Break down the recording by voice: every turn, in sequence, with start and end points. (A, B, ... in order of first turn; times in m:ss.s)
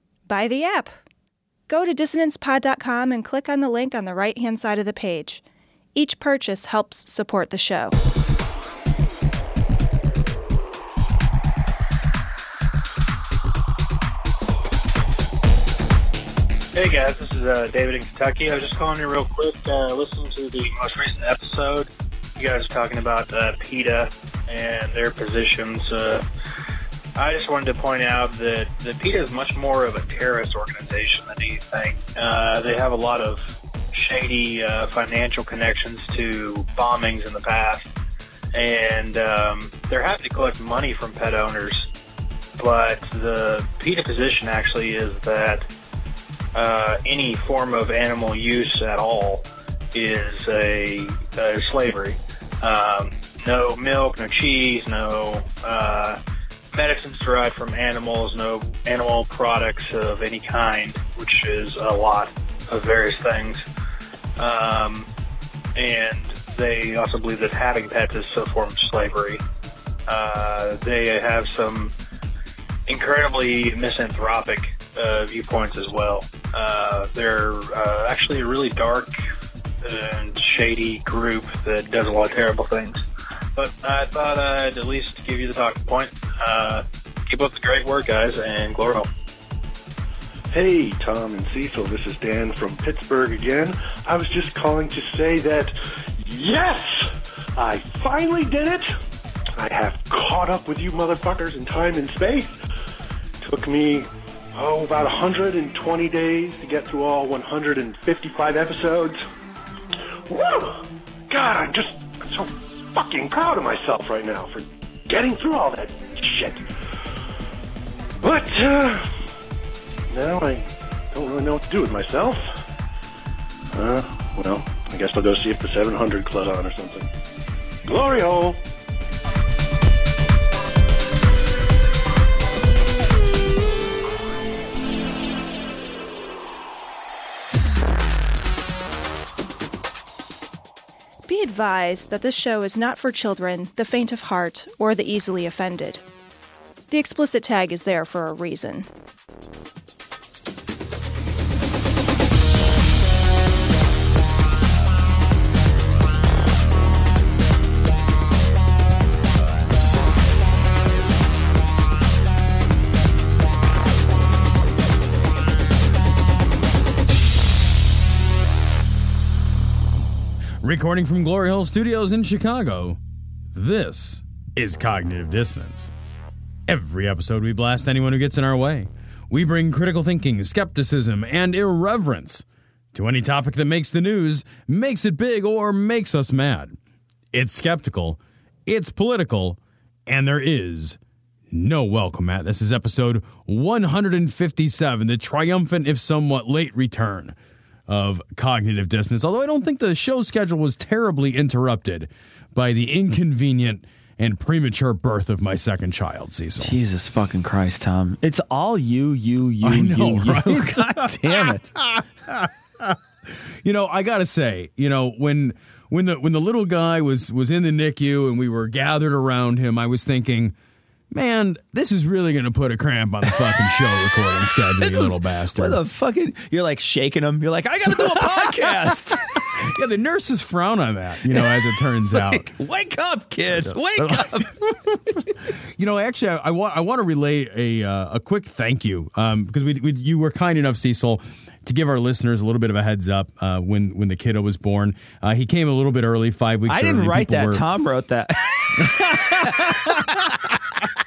0:00.3-0:00.9 A
0:01.7-0:05.4 A
0:06.0-0:08.0 A
0:16.8-0:26.2 B
0:27.2-0:33.4 B
0:33.9-0:37.9 B
0:38.5-0:41.9 B
0:42.6-0:45.7 B
0:46.5-0:56.2 B
0:56.7-1:03.6 B
1:04.4-1:05.1 B
1:05.8-1:09.4 B
1:10.1-1:11.9 B
1:12.9-1:19.2 B
1:19.8-1:23.0 B
1:23.6-1:29.1 B
1:30.5-1:38.9 C
1:39.6-1:42.6 C
1:43.4-1:49.2 C
1:50.3-1:56.6 C
1:58.2-1:59.1 C
2:00.1-2:02.4 C
2:03.7-2:07.1 C
2:07.9-2:08.6 C
2:21.3-2:26.0 A
2:26.9-2:28.9 A
2:50.6-2:53.0 D
2:53.5-2:55.9 D
2:56.7-3:06.8 D
3:07.3-3:11.0 D
3:11.5-3:17.4 D
3:17.9-3:26.8 D
3:26.6-3:31.7 E
3:29.6-3:40.6 D
3:41.1-3:45.8 D
3:44.7-3:49.5 E
3:47.9-3:52.5 D
3:51.3-3:54.6 E
3:53.6-3:55.2 D
3:55.8-4:07.6 D
4:06.7-4:10.5 E
4:08.8-4:10.2 D